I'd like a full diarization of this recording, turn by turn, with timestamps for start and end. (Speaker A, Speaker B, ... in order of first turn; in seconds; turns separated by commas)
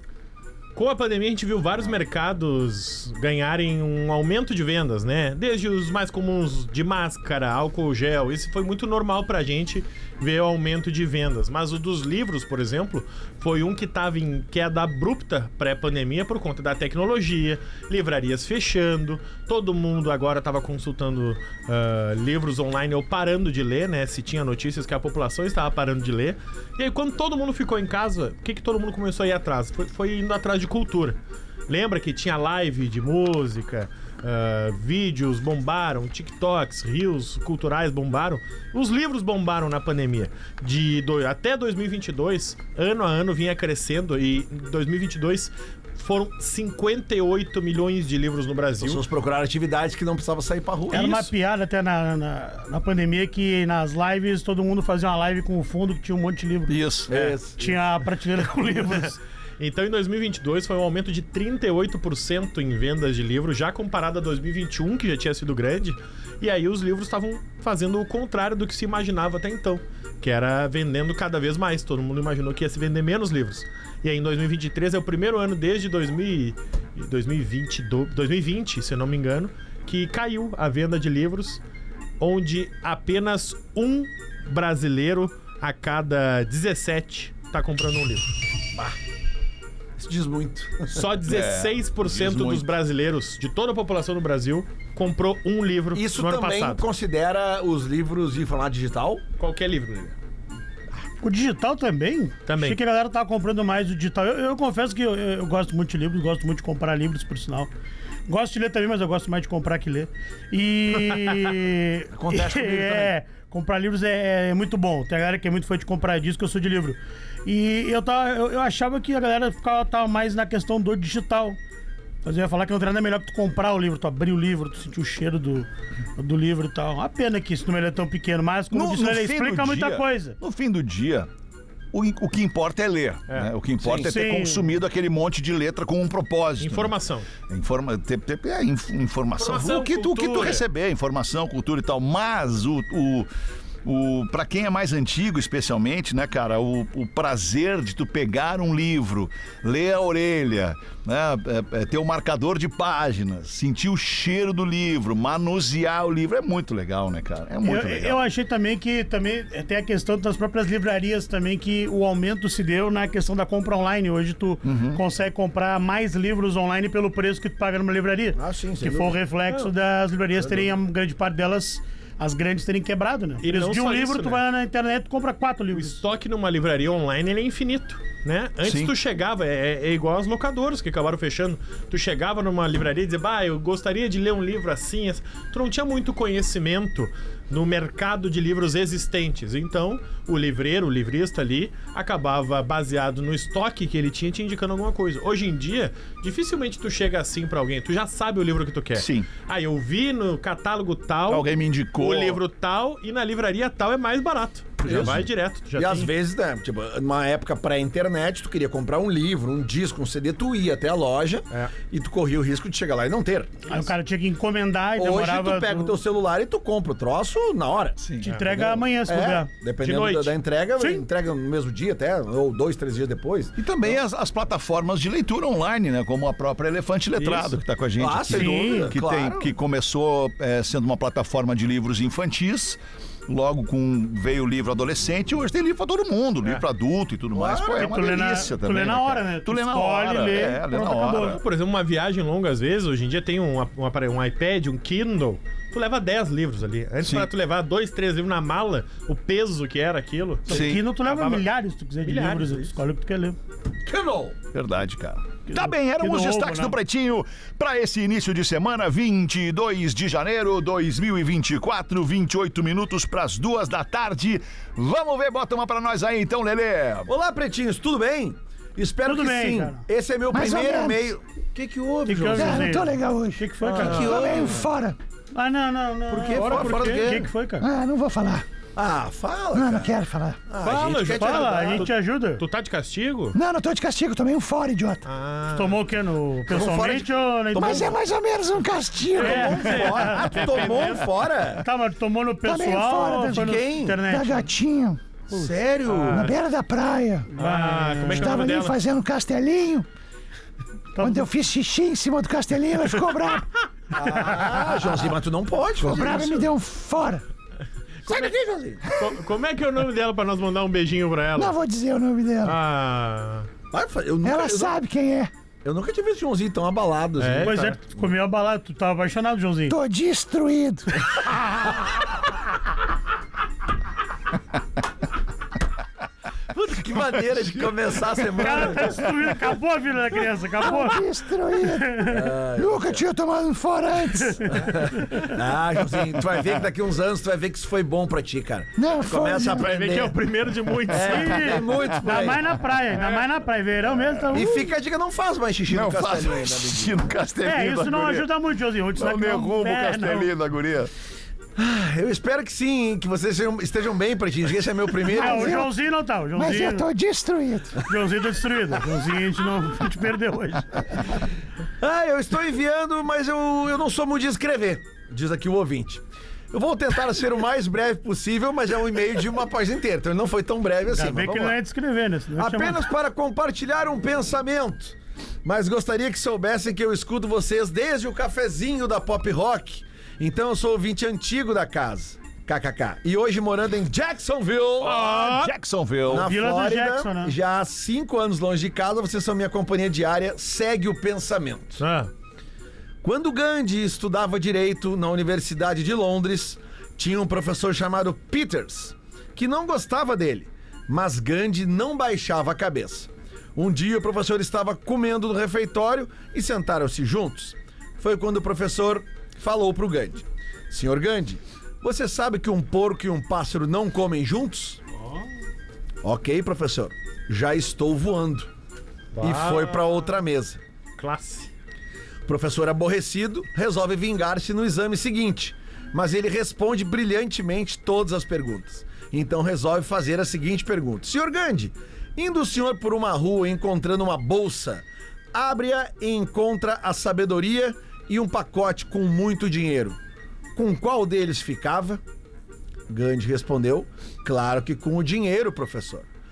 Speaker A: 0.7-31.2, Speaker A: 31.7-49.0, Speaker B: 48.8-51.1, Speaker A: 50.9-51.3, Speaker C: 50.9-59.2, Speaker D: 56.7-57.1, Speaker B: 57.1-57.8, Speaker A: 59.6-81.6, Speaker A: 82.2-88.3, Speaker B: 90.0-91.1, Speaker A: 90.9-96.8, Speaker D: 91.2-92.7, Speaker B: 95.9-99.2, Speaker A: 99.4-100.2, Speaker C: 101.2-107.7, Speaker A: 102.5-102.8, Speaker C: 108.3-121.6, Speaker A: 111.1-111.4, Speaker B: 112.1-113.1, Speaker C: 122.2-130.4, Speaker D: 128.7-131.3, Speaker D: 131.9-136.9, Speaker B: 133.8-134.1, Speaker C: 134.0-134.7, Speaker A: 136.6-137.3, Speaker D: 137.5-143.3, Speaker A: 139.4-140.6, Speaker D: 143.8-158.2, Speaker C: 157.6-176.0, Speaker D: 164.6-165.0, Speaker B: 168.3-169.2, Speaker B: 170.4-170.7, Speaker A: 173.4-174.4, Speaker A: 175.7-206.1, Speaker D: 178.6-178.9, Speaker D: 198.9-199.3, Speaker D: 201.3-202.4, Speaker B: 204.8-205.2, Speaker D: 204.8-205.2, Speaker B: 205.8-213.8, Speaker C: 213.7-216.0, Speaker B: 215.0-224.0, Speaker D: 218.0-218.3, Speaker C: 218.2-219.5, Speaker A: 218.2-218.5, Speaker A: 219.8-220.3, Speaker C: 220.8-221.0, Speaker D: 223.6-241.4, Speaker A: 227.2-227.6, Speaker B: 228.0-229.5, Speaker C: 228.3-228.9, Speaker B: 237.3-238.1, Speaker C: 237.7-241.4, Speaker A: 241.1-251.4, Speaker D: 247.0-247.3, Speaker C: 250.5-253.4, Speaker D: 250.5-250.8, Speaker A: 252.0-252.7, Speaker B: 253.8-254.3, Speaker D: 254.5-267.1, Speaker C: 255.5-256.8, Speaker B: 267.1-272.8, Speaker C: 269.1-269.8, Speaker E: 270.3-271.1, Speaker C: 272.1-274.3, Speaker E: 272.3-275.0, Speaker B: 273.6-274.7, Speaker C: 275.3-277.7, Speaker B: 276.1-277.3, Speaker A: 276.3-277.1, Speaker E: 277.6-278.4, Speaker B: 278.7-279.9, Speaker E: 279.5-280.4, Speaker B: 280.5-281.9, Speaker A: 280.6-283.4, Speaker C: 281.1-282.4, Speaker E: 283.3-285.1, Speaker A: 285.0-285.8, Speaker C: 285.5-287.9, Speaker B: 286.5-288.0, Speaker E: 287.6-290.1, Speaker A: 289.1-291.2, Speaker B: 289.2-291.6, Speaker C: 289.2-290.4, Speaker C: 291.6-294.5, Speaker E: 292.4-295.0, Speaker B: 293.3-294.0, Speaker B: 295.3-296.3, Speaker A: 295.9-296.3, Speaker E: 296.1-297.3, Speaker C: 297.3-298.4, Speaker A: 297.4-298.8, Speaker E: 298.1-299.9, Speaker C: 300.9-301.3, Speaker E: 301.0-303.5, Speaker B: 303.9-306.5, Speaker E: 305.8-307.2, Speaker A: 308.0-308.3, Speaker B: 308.1-308.8, Speaker E: 308.8-309.1, Speaker A: 308.9-311.6, Speaker E: 311.4-312.6, Speaker A: 312.4-313.5, Speaker B: 313.7-314.8, Speaker E: 314.2-315.3, Speaker B: 315.6-317.7, Speaker A: 317.2-317.8, Speaker C: 317.4-319.8, Speaker E: 319.7-320.9, Speaker B: 326.5-329.1, Speaker C: 328.4-331.0, Speaker E: 330.6-332.0, Speaker C: 331.6-332.3, Speaker B: 332.0-333.0, Speaker E: 332.5-334.6, Speaker C: 334.2-334.6, Speaker B: 334.5-340.1, Speaker E: 338.8-339.7, Speaker A: 339.4-341.7, Speaker B: 340.9-342.5, Speaker C: 341.0-344.7, Speaker D: 341.7-342.2, Speaker B: 344.3-347.1, Speaker D: 345.7-348.3, Speaker C: 347.4-350.3, Speaker D: 348.9-350.9, Speaker B: 351.6-355.6, Speaker E: 355.1-355.7, Speaker C: 355.1-356.9, Speaker E: 356.3-357.8, Speaker C: 357.8-360.9, Speaker B: 361.8-371.6, Speaker C: 370.9-372.8, Speaker B: 372.4-384.9, Speaker A: 384.8-385.5, Speaker D: 384.8-386.3, Speaker B: 386.1-391.8, Speaker C: 386.1-387.3, Speaker A: 391.8-392.1, Speaker B: 393.0-414.8, Speaker B: 416.0-418.5, Speaker A: 419.1-420.2, Speaker B: 419.2-420.6, Speaker A: 421.0-421.5, Speaker B: 422.3-440.0, Speaker B: 440.5-442.0, Speaker B: 442.9-446.1